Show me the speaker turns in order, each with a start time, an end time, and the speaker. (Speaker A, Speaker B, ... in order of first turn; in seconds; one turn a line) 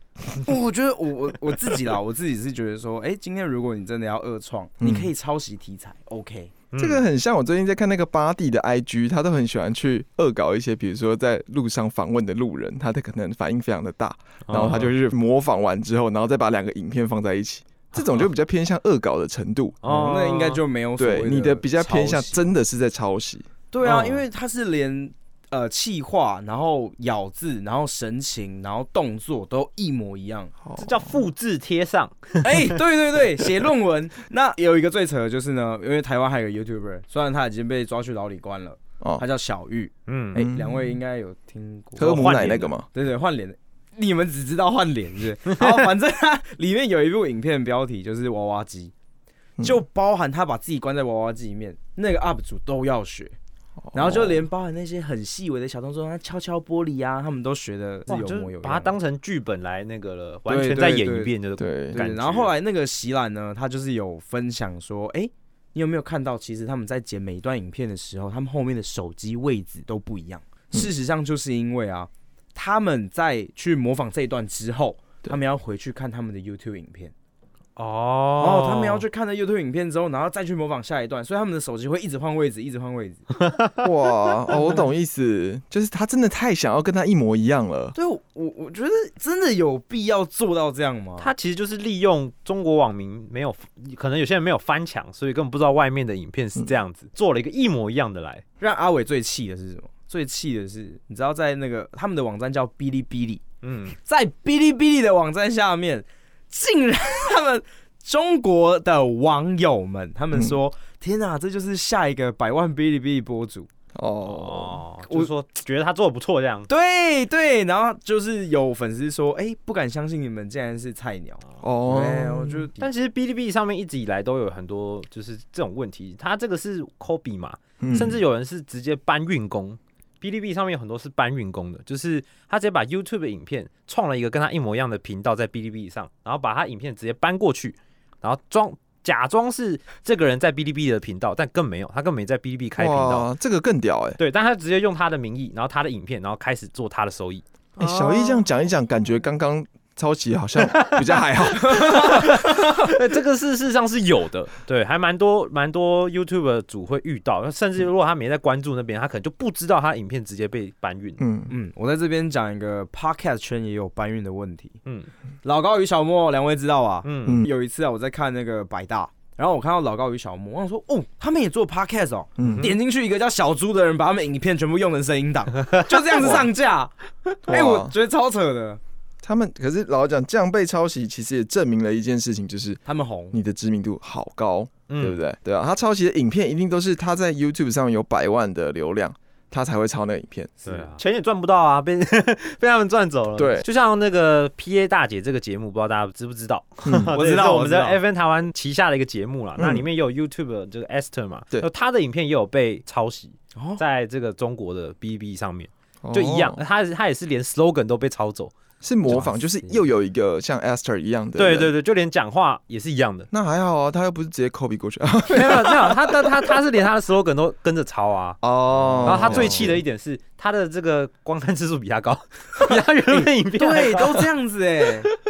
Speaker A: 0.3-6.5
Speaker B: 4.8-5.1
Speaker C: 6.7-7.0
Speaker B: 6.8-19.8
Speaker C: 14.5-14.9
Speaker C: 19.8-20.6
Speaker A: 19.9-22.4
Speaker B: 21.0-24.1
Speaker A: 23.7-30.5
Speaker C: 23.9-24.1
Speaker B: 30.6-31.2
Speaker C: 30.8-32.8
Speaker A: 32.4-42.3
Speaker B: 39.0-39.2
Speaker C: 40.1-40.4
Speaker B: 40.4-41.0
Speaker B: 42.0-42.9
Speaker C: 42.0-42.7
Speaker A: 42.9-48.9
Speaker C: 45.6-45.9
Speaker A: 49.6-53.4
Speaker B: 53.8-54.5
Speaker A: 53.9-59.0
Speaker C: 58.1-62.5
Speaker A: 60.5-61.3
Speaker B: 61.6-62.0
Speaker A: 61.9-77.1
Speaker C: 77.8-79.1
Speaker A: 78.4-83.3
Speaker C: 83.3-84.8
Speaker B: 83.8-88.0
Speaker A: 88.0-91.3
Speaker C: 91.2-98.4
Speaker A: 98.6-103.4
Speaker C: 103.6-104.0
Speaker A: 104.0-113.7
Speaker B: 113.9-114.8
Speaker C: 114.2-116.7
Speaker A: 115.1-115.3
Speaker A: 116.7-122.8
Speaker B: 121.6-122.7
Speaker C: 122.8-143.3
Speaker B: 127.8-128.2
Speaker B: 142.8-144.2
Speaker C: 144.2-148.4
Speaker B: 147.8-152.4
Speaker C: 150.6-161.2
Speaker A: 151.6-152.9
Speaker B: 161.2-161.5
Speaker A: 161.5-164.8
Speaker A: 165.4-178.8
Speaker C: 167.0-167.4
Speaker B: 172.4-172.8
Speaker C: 172.4-172.8
Speaker B: 176.2-176.5
Speaker B: 177.5-177.9
Speaker B: 179.2-190.6
Speaker A: 182.9-183.4
Speaker C: 184.9-185.2
Speaker C: 190.6-208.5
Speaker B: 193.4-193.7
Speaker B: 196.8-197.1
Speaker A: 197.1-198.0
Speaker B: 199.6-199.8
Speaker A: 203.6-203.8
Speaker B: 206.0-206.6
Speaker B: 208.8-211.7
Speaker A: 209.1-209.8
Speaker C: 211.4-213.3
Speaker B: 213.3-216.5
Speaker C: 215.3-218.4
Speaker B: 218.4-219.8
Speaker A: 218.8-219.7
Speaker C: 219.0-224.2
Speaker A: 223.1-225.1